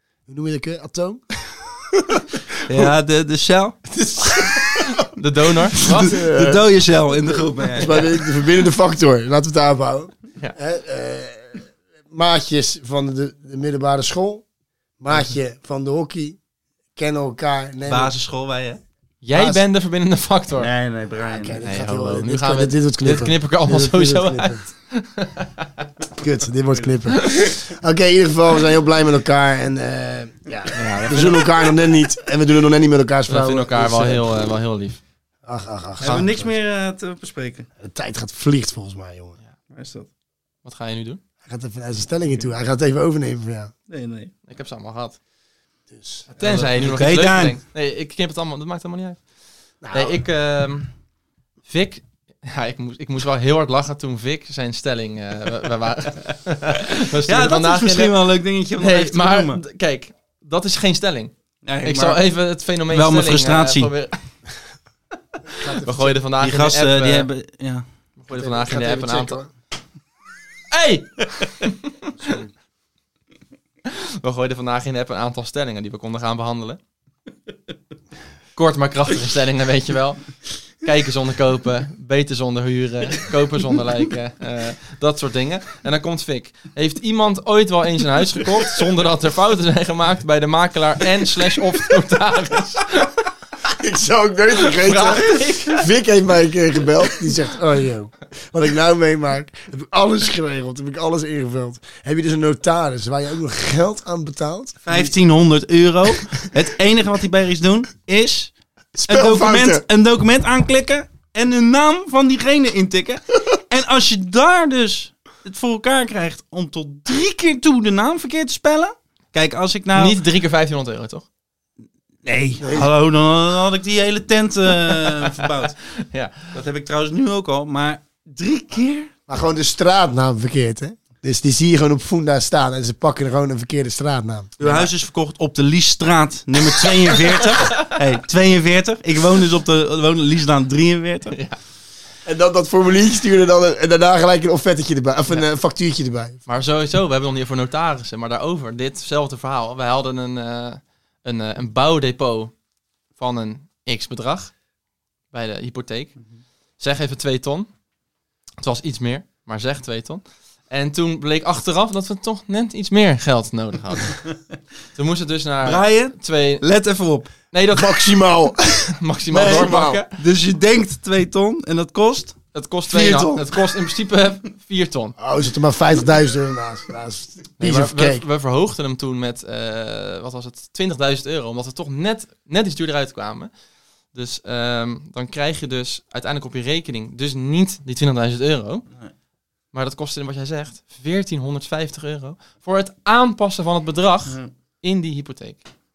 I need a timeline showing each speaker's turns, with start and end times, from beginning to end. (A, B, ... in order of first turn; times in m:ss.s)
0:00.3-0:02.4 A
0:02.7-0:03.8 B
0:03.9-0:04.9 A
0:05.0-0:06.2 C
0:05.8-0:08.1 B
0:05.8-0:14.5 A
0:15.0-0:16.4 A
0:17.0-0:18.1 A
0:17.9-0:18.8 B
0:19.2-0:20.7 C
0:19.3-0:19.6 A
0:20.6-0:21.6 B
0:21.2-0:24.7 A
0:21.6-0:25.7 C
0:26.2-0:34.3 A
0:27.2-0:27.4 C
0:30.7-0:31.4 C
0:33.3-0:35.0 C
0:35.4-0:36.5 A
0:36.0-0:37.7 B
0:37.8-0:39.4 A
0:39.7-0:40.1 B
0:40.6-0:41.2 C
0:41.4-0:43.7 A
0:43.9-0:44.3 B
0:44.5-0:45.2 C
0:45.9-0:46.3 A
0:46.3-0:49.2 C
0:46.4-0:47.6 B
0:49.8-0:50.2 A
0:49.9-0:50.9 C
0:51.7-0:58.2 C
0:57.3-0:59.6 B
0:58.8-1:04.5 C
1:01.6-1:02.2 B
1:02.9-1:03.9 B
1:05.5-1:06.2 A
1:05.7-1:07.3 C
1:06.4-1:07.8 B
1:08.2-1:09.4 C
1:08.3-1:09.5 A
1:10.7-1:11.9 C
1:12.2-1:12.5 A
1:13.9-1:16.8 C
1:18.6-1:33.3 C
1:33.7-1:45.1 A
1:34.7-1:35.9 C
1:44.8-1:48.5 B
1:48.9-1:49.8 A
1:49.1-2:00.2 B
2:00.0-2:01.3 C
2:02.2-2:05.8 B
2:02.6-2:02.9 A
2:05.0-2:06.5 C
2:06.5-2:09.1 B
2:09.3-2:14.6 A
2:14.6-2:21.4 B
2:14.6-2:14.9 C
2:22.2-2:26.4 A
2:26.5-2:32.5 C
2:33.2-2:34.5 C
2:35.3-2:36.3 C
2:36.8-2:37.7 C
2:38.6-2:44.4 C
2:45.0-2:46.6 C
2:45.6-2:47.3 B
2:47.5-2:48.1 C
2:47.7-2:50.0 A
2:49.0-2:50.1 C
2:49.3-2:53.5 B
2:52.5-2:55.2 C
2:55.2-2:58.2 A
2:57.6-3:03.5 C
3:04.1-3:08.9 C
3:09.7-3:15.6 C